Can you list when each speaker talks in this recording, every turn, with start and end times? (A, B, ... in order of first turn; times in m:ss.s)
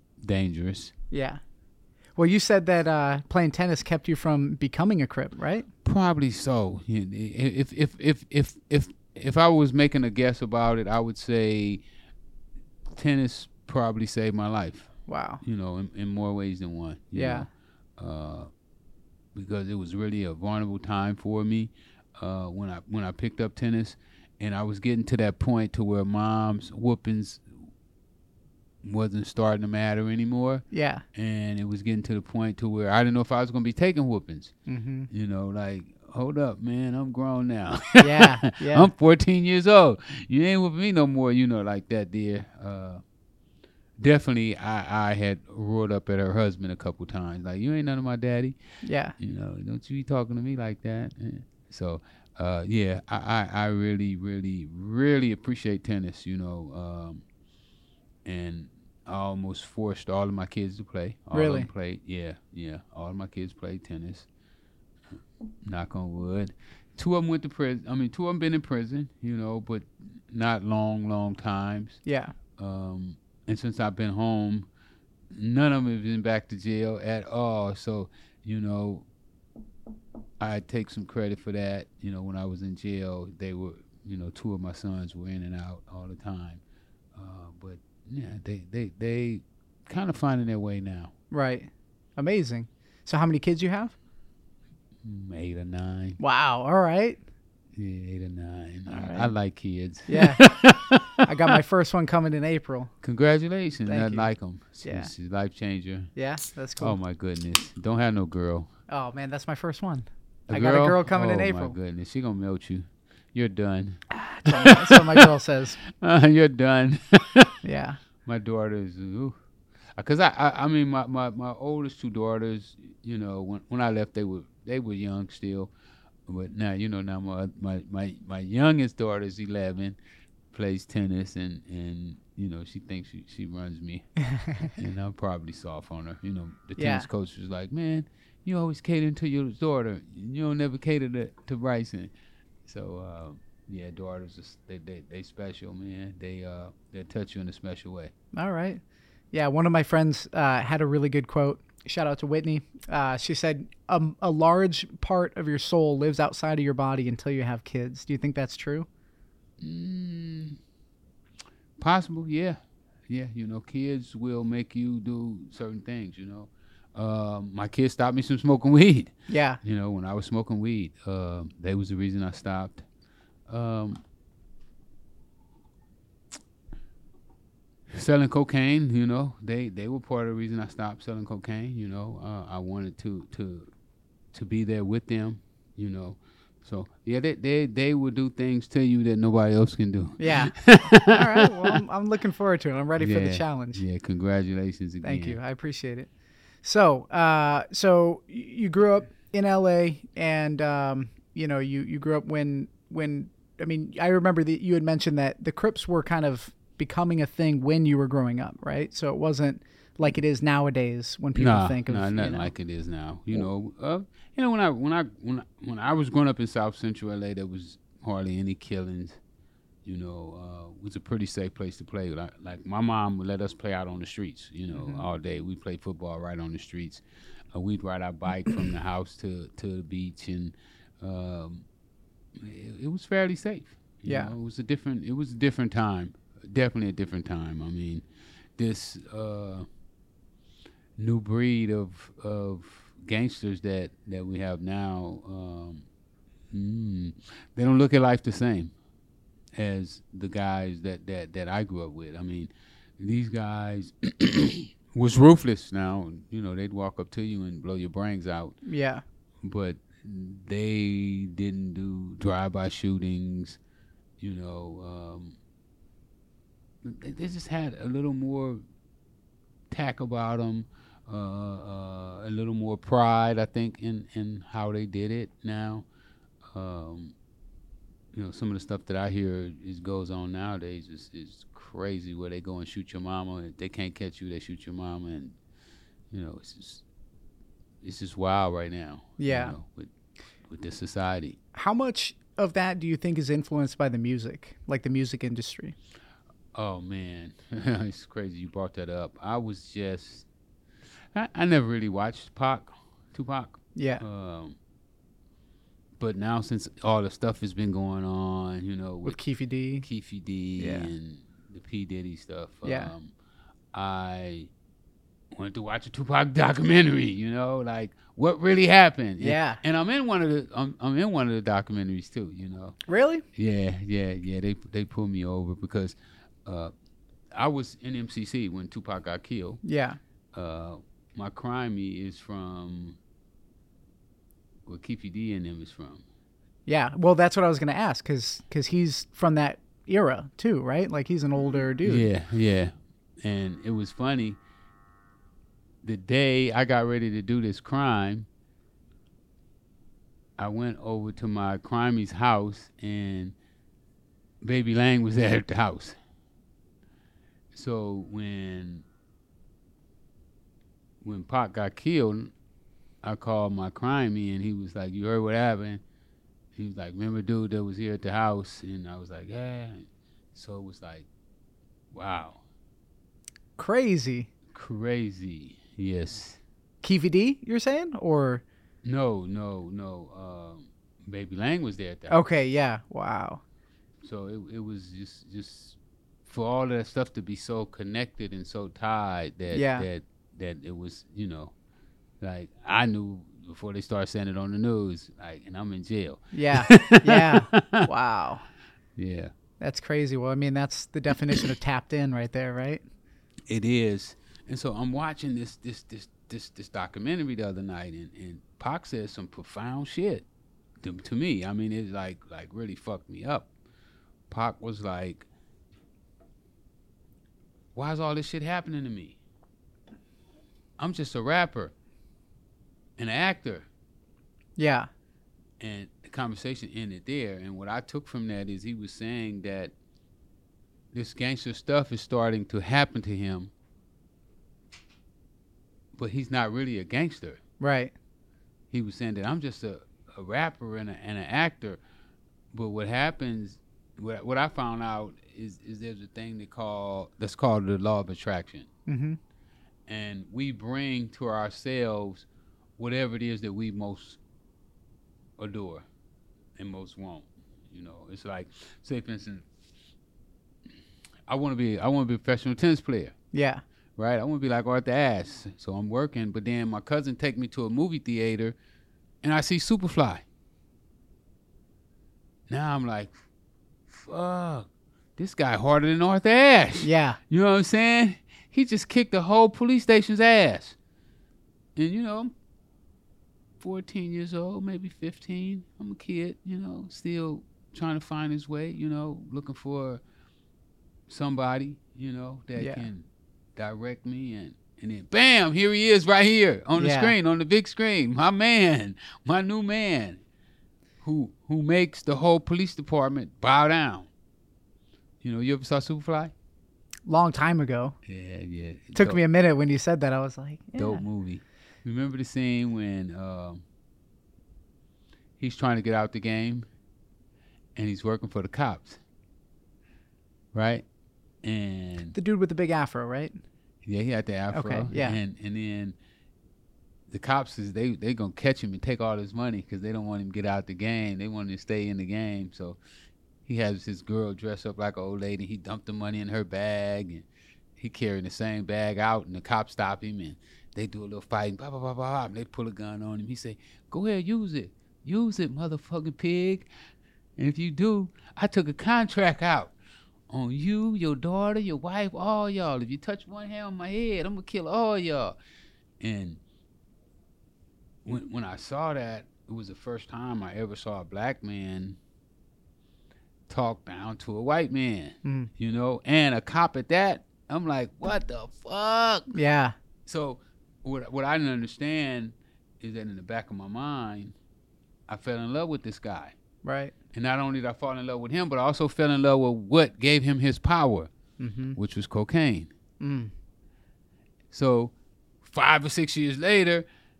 0:00.2-0:00.9 A
0:01.1-0:01.4 B
0:02.2-0:05.7 B
0:05.8-0:11.8 A
0:12.9-0:14.9 A
0:15.1-0:15.4 B
0:15.4-0:18.5 A
0:17.2-0:17.5 B
0:19.3-0:27.5 A
0:28.8-0:34.5 A
0:30.7-0:31.0 B
0:34.7-0:35.1 B
0:35.1-0:43.0 A
0:38.0-0:38.9 B
0:44.0-0:48.6 A
0:48.8-0:49.2 B
0:49.2-0:57.2 A
0:58.2-1:04.3 A
1:01.3-1:01.7 B
1:05.6-1:12.0 A
1:12.0-1:12.3 B
1:12.6-1:14.7 A
1:15.3-1:19.1 A
1:20.4-1:26.6 A
1:27.1-1:31.1 A
1:31.3-1:33.9 B
1:35.0-1:36.2 A
1:36.2-1:37.2 B
1:37.8-1:41.6 A
1:38.9-1:39.3 B
1:40.1-1:40.4 B
1:41.2-1:42.9 B
1:43.0-1:46.1 A
1:43.9-1:44.3 B
1:44.8-1:45.1 B
1:46.2-1:47.0 B
1:46.8-1:48.7 A
1:48.9-1:51.8 B
1:50.5-1:55.3 A
1:54.1-1:55.8 B
1:55.8-1:57.6 A
1:57.6-1:58.0 B
1:58.2-1:59.4 A
2:00.0-2:05.7 A
2:06.3-2:10.0 A
2:10.5-2:14.1 A
2:14.2-2:14.7 B
2:14.6-2:22.1 A
2:16.8-2:17.1 B
2:22.6-2:28.1 A
2:28.3-2:28.8 B
2:29.3-2:38.9 B
2:39.6-2:40.6 A
2:41.8-2:52.8 A
2:49.3-2:49.6 B
2:53.5-2:54.0 A
2:57.9-3:03.7 A
3:04.3-3:11.8 A
3:10.2-3:13.8 B
3:13.0-3:15.4 A
3:15.0-3:16.1 B
3:16.6-3:32.5 B
3:31.4-3:39.2 A
3:39.8-3:51.6 A
3:44.7-3:45.1 B
3:52.4-3:58.0 A
3:54.1-3:54.3 B
3:58.6-3:59.6 A
4:01.0-4:05.8 A
4:06.5-4:08.7 A
4:09.6-4:18.6 A
4:18.6-4:19.0 B
4:19.4-4:23.6 A
4:24.2-4:25.4 A
4:26.8-4:28.6 A
4:29.7-4:35.9 A
4:36.4-4:37.1 A
4:38.1-4:45.4 A
4:46.1-4:46.8 A
4:47.8-4:49.9 A
4:49.2-4:49.6 B
4:50.5-4:51.4 A
4:51.5-4:55.8 B
4:56.5-5:00.3 A
5:01.1-5:04.6 A
5:03.8-5:04.0 B
5:06.0-5:09.2 A
5:09.0-5:09.9 B
5:09.8-5:13.1 A
5:10.6-5:10.9 B
5:12.7-5:12.9 B
5:13.7-5:14.5 A
5:15.3-5:22.8 A
5:19.2-5:19.6 B
5:22.9-5:23.2 B
5:23.4-5:26.7 A
5:27.3-5:29.6 A
5:29.6-5:30.0 B
5:30.3-5:33.0 A
5:34.7-5:36.0 A
5:36.7-5:42.1 B
5:41.8-5:44.4 A
5:45.8-5:48.3 A
5:50.4-5:53.4 A
5:54.4-5:56.0 A
5:57.5-5:58.9 A
6:01.0-6:02.3 A
6:03.0-6:05.8 A
6:06.6-6:11.1 A
6:11.9-6:12.4 A
6:13.6-6:14.3 B
6:14.5-6:16.4 A
6:16.8-6:18.4 B
6:18.8-6:22.2 A
6:22.1-6:23.4 B
6:24.0-6:31.5 A
6:29.5-6:29.9 B
6:32.2-6:37.9 A
6:36.3-6:38.4 B
6:39.0-6:39.3 A
6:39.6-6:42.8 B
6:43.5-6:50.3 A
6:50.8-6:53.5 A
6:54.3-6:55.3 A
6:57.7-6:59.2 A
7:00.8-7:01.7 A
7:03.0-7:03.7 A
7:04.6-7:04.9 B
7:05.6-7:09.7 A
7:10.9-7:13.5 A
7:16.0-7:17.4 A
7:17.6-7:17.9 B
7:18.7-7:21.8 A
7:22.5-7:28.7 A
7:28.9-7:29.2 B
7:29.9-7:32.3 A
7:32.8-7:34.2 A
7:35.4-7:35.8 A
7:36.6-7:39.4 A
7:41.3-7:43.1 A
7:43.3-7:43.6 B
7:44.0-7:48.6 A
7:49.2-7:50.2 A
7:52.5-7:53.2 A
7:53.9-8:00.8 A
7:56.8-7:57.2 B
8:01.8-8:02.3 A
8:03.6-8:10.0 A
8:11.1-8:20.2 A
8:12.6-8:12.8 B
8:16.8-8:17.2 B
8:21.0-8:24.1 A
8:25.2-8:26.3 A
8:27.1-8:27.9 B
8:28.1-8:29.2 A
8:28.9-8:31.0 B
8:30.8-8:33.6 A
8:35.4-8:36.7 A
8:37.8-8:39.0 A
8:40.5-8:40.8 A
8:41.4-8:42.1 A
8:42.1-8:43.3 B
8:43.8-8:45.9 A
8:44.5-8:45.2 B
8:47.1-8:52.8 A
8:53.4-8:57.3 A
8:57.8-9:06.7 A
9:07.4-9:09.7 A
9:10.3-9:15.4 A
9:16.0-9:16.4 A
9:18.0-9:22.0 A
9:23.5-9:29.3 A
9:25.2-9:25.5 B
9:29.3-9:29.7 B
9:30.1-9:34.4 A
9:35.1-9:36.4 A
9:36.6-9:36.9 B
9:37.1-9:41.1 A
9:41.4-9:41.8 B
9:41.8-9:42.7 A
9:43.0-9:43.3 B
9:44.5-9:46.8 A